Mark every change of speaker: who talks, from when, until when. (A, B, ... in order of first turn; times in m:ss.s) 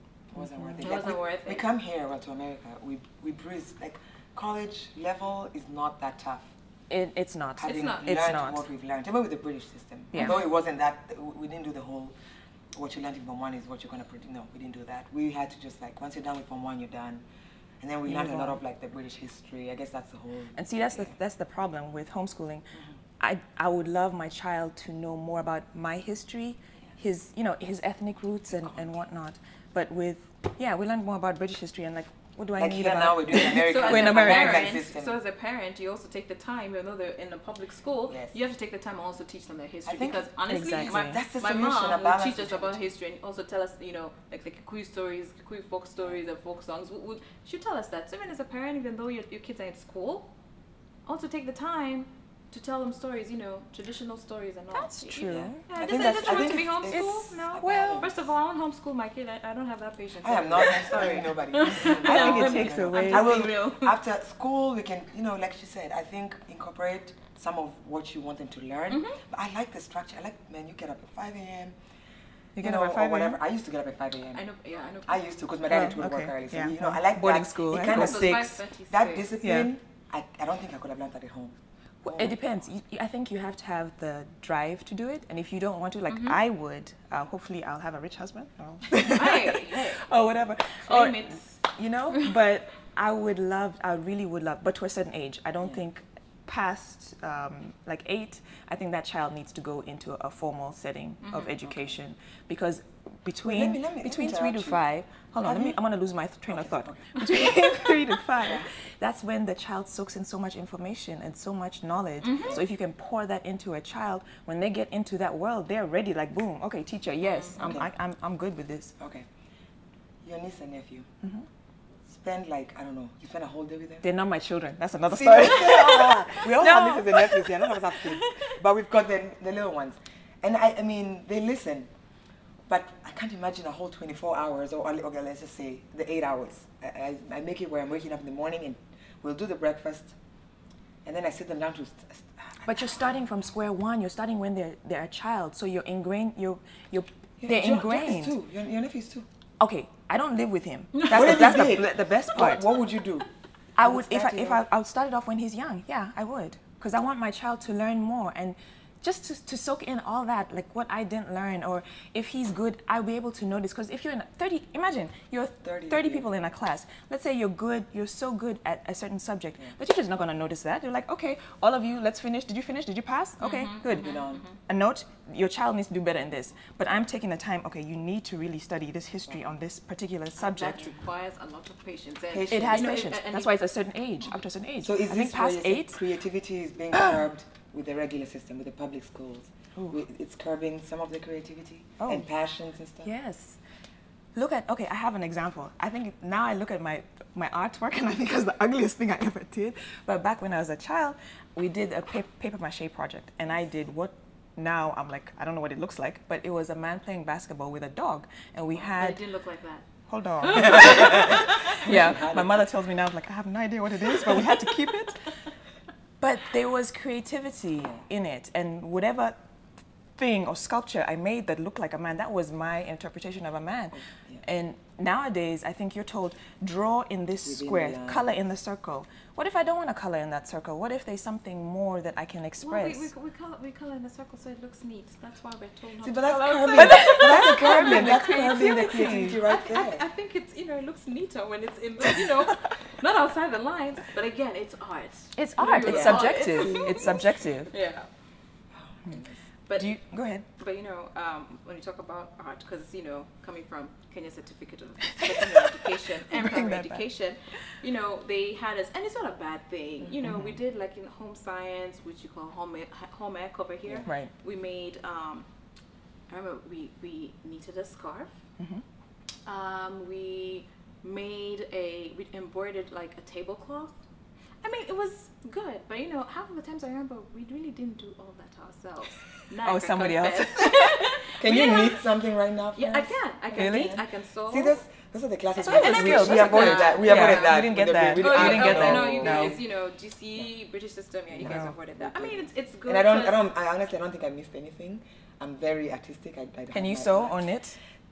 0:00.3-0:06.5 A
0:00.5-0:01.0 B
0:00.8-0:01.6 C
0:06.9-0:08.6 B
0:07.6-0:12.2 A
0:07.6-0:08.1 C
0:10.1-0:10.4 B
0:10.2-0:10.5 C
0:12.7-0:17.2 A
0:17.8-0:21.1 A
0:18.1-0:18.6 B
0:20.5-0:22.6 B
0:23.2-0:34.7 B
0:28.6-0:28.9 A
0:32.6-0:35.2 A
0:33.6-0:50.3 C
0:38.1-0:38.3 A
0:39.8-0:40.2 A
0:40.4-0:41.2 B
0:40.8-0:42.8 A
0:51.0-1:04.0 C
0:54.7-0:58.0 B
0:55.2-0:58.2 A
1:00.2-1:11.8 A
1:01.7-1:03.5 B
1:08.9-1:09.2 C
1:12.6-1:13.4 B
1:12.6-1:14.4 A
1:14.3-1:15.3 C
1:15.0-1:22.4 A
1:15.7-1:18.4 B
1:17.8-1:19.3 C
1:19.4-1:19.7 B
1:22.0-1:58.9 B
1:26.1-1:26.4 C
1:29.1-1:30.0 C
1:30.8-1:31.6 C
1:41.2-1:41.6 C
1:41.6-1:42.0 A
1:43.4-1:44.8 A
1:45.4-1:45.8 A
1:46.5-1:47.1 A
1:48.4-1:48.7 A
1:52.2-1:52.6 C
1:57.2-1:57.7 C
1:59.0-1:59.3 A
2:00.2-2:01.1 A
2:02.0-2:04.1 A
2:04.0-2:07.7 B
2:05.1-2:11.9 A
2:12.7-2:20.1 A
2:21.0-2:23.1 A
2:22.6-2:28.4 B
2:27.4-2:29.2 A
2:29.6-2:32.7 B
2:30.9-2:31.2 C
2:31.1-2:33.3 A
2:33.8-3:00.8 B
2:33.8-2:34.6 A
2:45.6-2:46.2 A
2:53.4-2:54.5 C
2:53.9-2:54.4 A
3:00.4-3:03.5 C
3:02.3-3:03.0 A
3:02.5-3:06.0 B
3:04.8-3:13.1 A
3:06.9-3:07.2 B
3:12.0-3:12.3 B
3:13.0-3:13.6 B
3:14.3-3:29.2 B
3:28.7-3:29.9 C
3:30.1-3:35.3 B
3:30.4-3:31.4 C
3:30.5-3:32.7 A
3:36.2-3:39.4 B
3:40.2-3:53.1 B
3:43.9-3:44.4 A
3:47.4-3:48.3 A
3:52.6-4:08.1 C
3:56.0-4:00.0 A
3:56.7-3:59.4 B
4:05.4-4:07.7 B
4:05.8-4:07.2 A
4:08.7-4:09.4 A
4:09.7-4:09.9 C
4:09.7-4:10.4 B
4:10.6-4:25.4 C
4:15.6-4:17.0 B
4:20.1-4:20.6 B
4:24.0-4:24.3 B
4:26.3-4:28.3 C
4:28.6-4:28.8 B
4:29.4-4:34.0 C
4:34.6-4:42.0 C
4:39.6-4:41.0 B
4:41.4-4:49.6 A
4:42.8-4:44.8 C
4:43.5-4:44.0 B
4:45.6-4:49.6 B
4:45.6-4:53.4 C
4:51.3-4:57.4 A
4:51.4-4:51.7 B
4:56.7-4:57.8 B